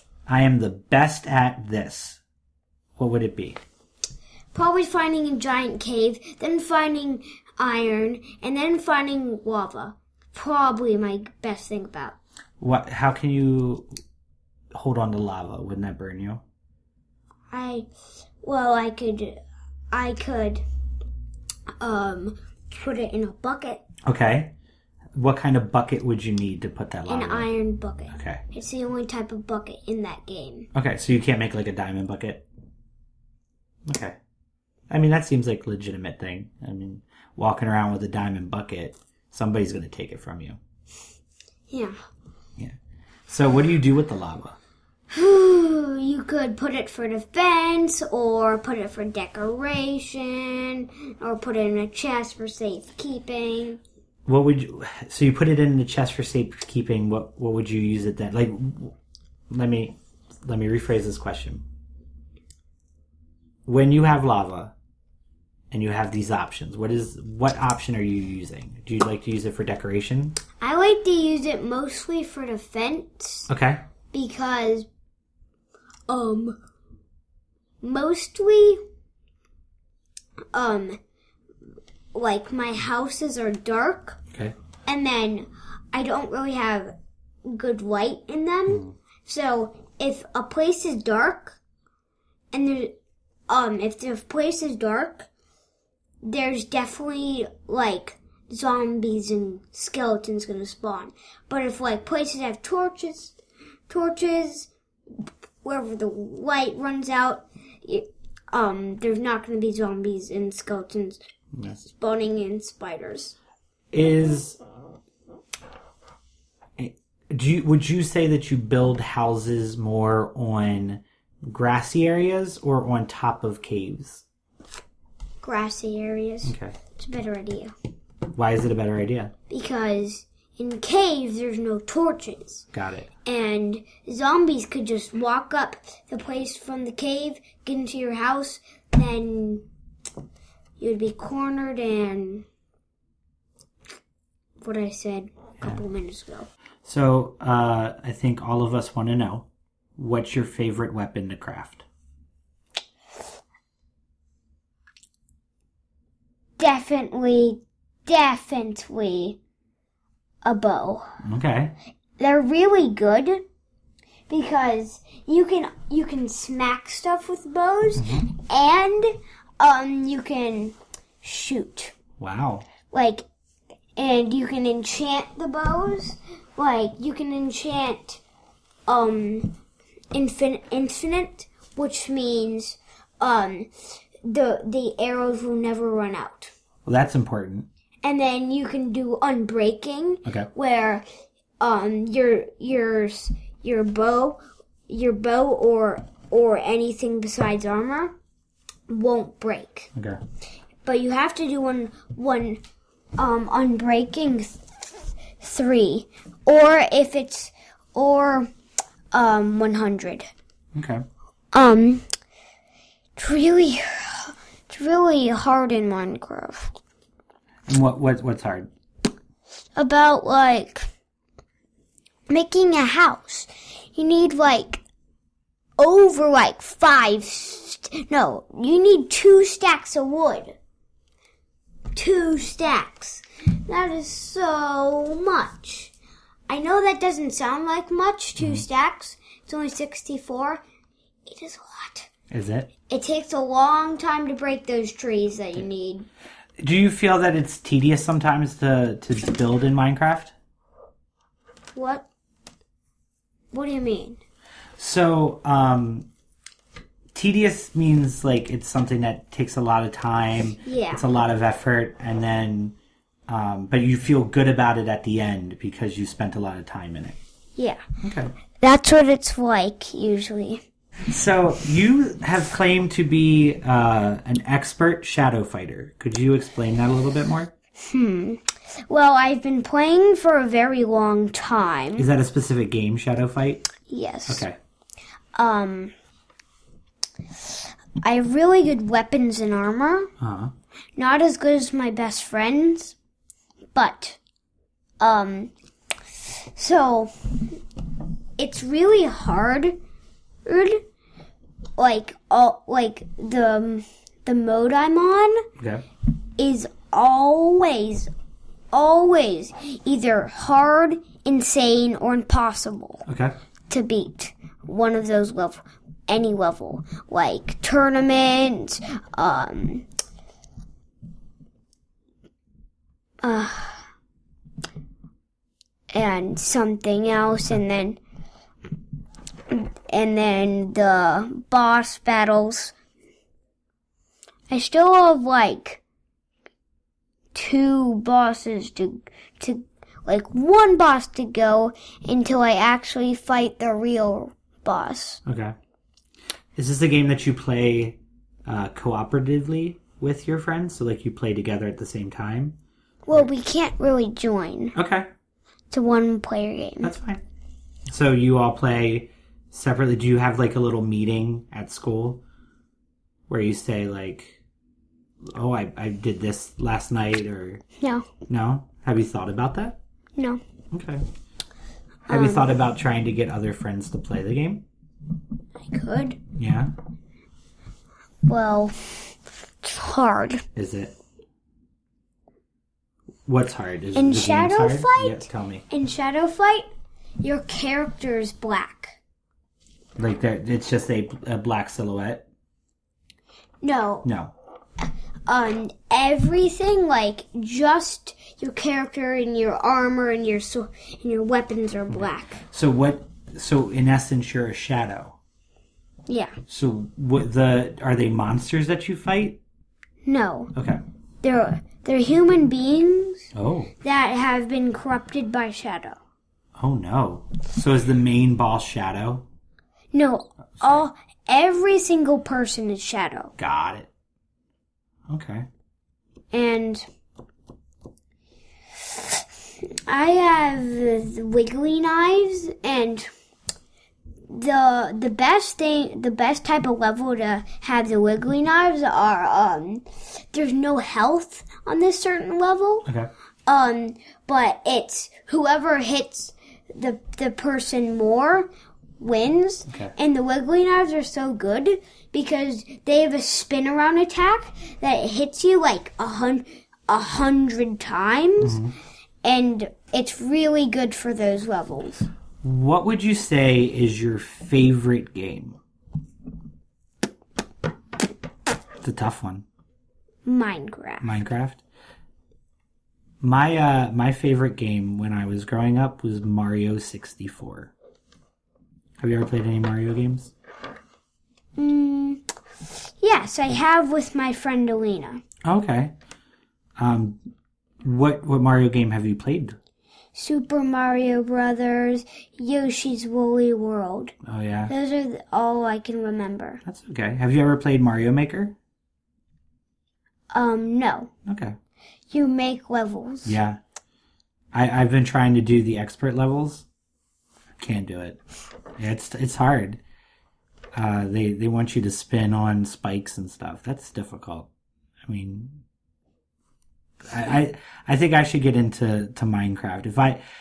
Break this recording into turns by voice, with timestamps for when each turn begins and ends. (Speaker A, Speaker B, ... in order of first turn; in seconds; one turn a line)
Speaker A: 0.3-2.2
Speaker A: 3.0-3.6
Speaker B: 4.5-12.2
Speaker A: 12.6-13.9
Speaker A: 14.7-16.4
Speaker B: 17.5-17.9
Speaker B: 18.4-20.6
Speaker B: 21.8-23.8
Speaker A: 24.0-24.6
Speaker A: 25.1-27.5
Speaker B: 27.1-30.7
Speaker A: 28.1-28.4
Speaker A: 30.7-32.5
Speaker A: 33.9-34.2
Speaker A: 34.9-40.6
Speaker B: 41.7-42.0
Speaker A: 43.3-44.6
Speaker B: 45.1-53.8
Speaker A: 54.3-58.9
Speaker A: 59.5-61.6
Speaker A: 63.7-64.7
Speaker A: 65.7-70.4
Speaker B: 70.6-73.5
Speaker A: 73.5-73.8
Speaker B: 74.1-74.9
Speaker B: 76.1-76.6
Speaker B: 77.8-78.8
Speaker B: 80.5-81.0
Speaker B: 82.1-84.2
Speaker B: 84.9-91.6
Speaker A: 88.7-88.9
Speaker B: 92.5-92.9
Speaker B: 93.5-95.3
Speaker B: 96.2-103.4
Speaker B: 103.9-104.7
Speaker B: 105.6-111.2
Speaker A: 111.5-111.8
Speaker B: 111.8-113.3
Speaker A: 113.9-114.6
Speaker A: 116.8-124.2
Speaker B: 125.4-127.7
Speaker A: 126.4-126.8
Speaker A: 128.3-129.3
Speaker B: 129.5-132.7
Speaker A: 132.7-133.1
Speaker B: 133.2-139.7
Speaker B: 140.8-142.4
Speaker B: 144.6-146.5
Speaker A: 146.8-149.5
Speaker A: 150.0-151.8
Speaker B: 156.6-159.4
Speaker B: 160.4-161.1
Speaker A: 161.2-161.8
Speaker B: 162.2-163.4
Speaker B: 164.3-171.9
Speaker A: 168.0-168.3
Speaker A: 172.2-172.7
Speaker B: 172.9-173.3
Speaker B: 174.0-178.2
Speaker B: 178.9-179.6
Speaker B: 180.1-183.7
Speaker B: 184.2-186.5
Speaker A: 186.8-187.7
Speaker B: 188.0-191.1
Speaker B: 191.6-198.2
Speaker B: 198.9-199.9
Speaker A: 199.9-200.2
Speaker B: 200.8-202.6
Speaker B: 203.2-204.6
Speaker B: 205.4-208.5
Speaker B: 209.1-210.3
Speaker A: 210.8-211.1
Speaker B: 211.5-212.1
Speaker B: 213.2-216.8
Speaker A: 217.7-218.7
Speaker B: 219.8-220.9
Speaker B: 222.3-224.8
Speaker B: 225.8-230.6
Speaker B: 231.9-235.9
Speaker B: 236.5-240.6
Speaker A: 238.4-238.7
Speaker B: 241.3-242.1
Speaker A: 242.3-242.7
Speaker B: 242.9-246.1
Speaker A: 246.6-250.3
Speaker B: 251.7-252.1
Speaker B: 253.5-254.2
Speaker A: 254.8-256.1
Speaker A: 257.1-262.8
Speaker B: 260.6-261.1
Speaker A: 263.3-267.2
Speaker B: 267.6-267.8
Speaker A: 268.0-268.3
Speaker B: 268.6-270.6
Speaker A: 271.1-277.5
Speaker B: 277.9-282.1
Speaker A: 282.0-283.7
Speaker B: 283.9-284.4
Speaker A: 284.3-284.6
Speaker B: 285.4-285.9
Speaker B: 288.0-290.1
Speaker A: 290.2-290.5
Speaker B: 291.0-292.9
Speaker B: 293.7-294.2
Speaker B: 295.0-295.5
Speaker B: 296.5-297.1
Speaker B: 298.4-299.8
Speaker B: 300.4-300.8
Speaker B: 301.8-305.5
Speaker A: 305.6-305.9
Speaker B: 306.4-308.1
Speaker B: 308.7-313.1
Speaker A: 313.1-313.4
Speaker B: 313.7-319.9
Speaker B: 323.2-323.9
Speaker B: 325.9-328.0
Speaker B: 329.5-332.7
Speaker B: 334.5-335.8
Speaker B: 337.3-345.2
Speaker A: 345.2-345.6
Speaker A: 346.6-352.6
Speaker B: 353.1-354.8
Speaker A: 354.8-355.1
Speaker B: 355.7-356.9
Speaker A: 356.8-357.2
Speaker A: 357.9-362.2
Speaker A: 363.3-364.4
Speaker A: 365.2-367.6
Speaker B: 367.8-368.1
Speaker A: 368.3-369.8
Speaker A: 370.7-371.1
Speaker B: 372.1-372.6
Speaker A: 372.1-374.6
Speaker B: 375.6-376.2
Speaker A: 376.4-376.7
Speaker B: 378.3-380.4
Speaker A: 380.6-381.0
Speaker A: 383.3-385.7
Speaker B: 383.9-386.6
Speaker B: 387.2-389.0
Speaker A: 390.0-392.2
Speaker B: 393.6-394.1
Speaker A: 394.0-394.3
Speaker B: 395.3-402.4
Speaker A: 401.9-405.2
Speaker B: 406.1-406.4
Speaker A: 406.5-409.4
Speaker B: 410.1-410.5
Speaker A: 410.5-410.8
Speaker B: 411.2-413.3
Speaker A: 413.3-413.7
Speaker B: 413.8-416.0
Speaker A: 416.6-419.3
Speaker B: 419.9-423.3
Speaker A: 423.4-423.9
Speaker A: 425.1-425.5
Speaker B: 426.3-426.9
Speaker B: 428.9-429.2
Speaker B: 429.9-433.1
Speaker B: 434.3-442.9
Speaker B: 443.5-458.6
Speaker A: 449.7-449.9
Speaker A: 458.4-458.8
Speaker B: 459.2-462.1
Speaker A: 462.4-465.6
Speaker A: 468.8-469.4
Speaker B: 470.3-471.1
Speaker A: 471.0-471.6
Speaker A: 473.2-477.7
Speaker A: 479.0-480.3
Speaker B: 481.6-482.2
Speaker B: 483.0-485.2
Speaker A: 485.4-485.9
Speaker A: 486.8-487.2
Speaker A: 487.8-489.6
Speaker B: 490.1-494.1
Speaker A: 494.2-494.7
Speaker B: 494.7-496.6
Speaker A: 496.6-498.6
Speaker B: 500.3-501.1
Speaker A: 501.3-501.6
Speaker B: 502.1-503.4
Speaker A: 503.2-503.6
Speaker A: 504.5-506.6
Speaker A: 507.6-508.2
Speaker A: 508.8-509.8
Speaker A: 510.8-514.5
Speaker A: 515.0-515.6
Speaker A: 517.0-520.2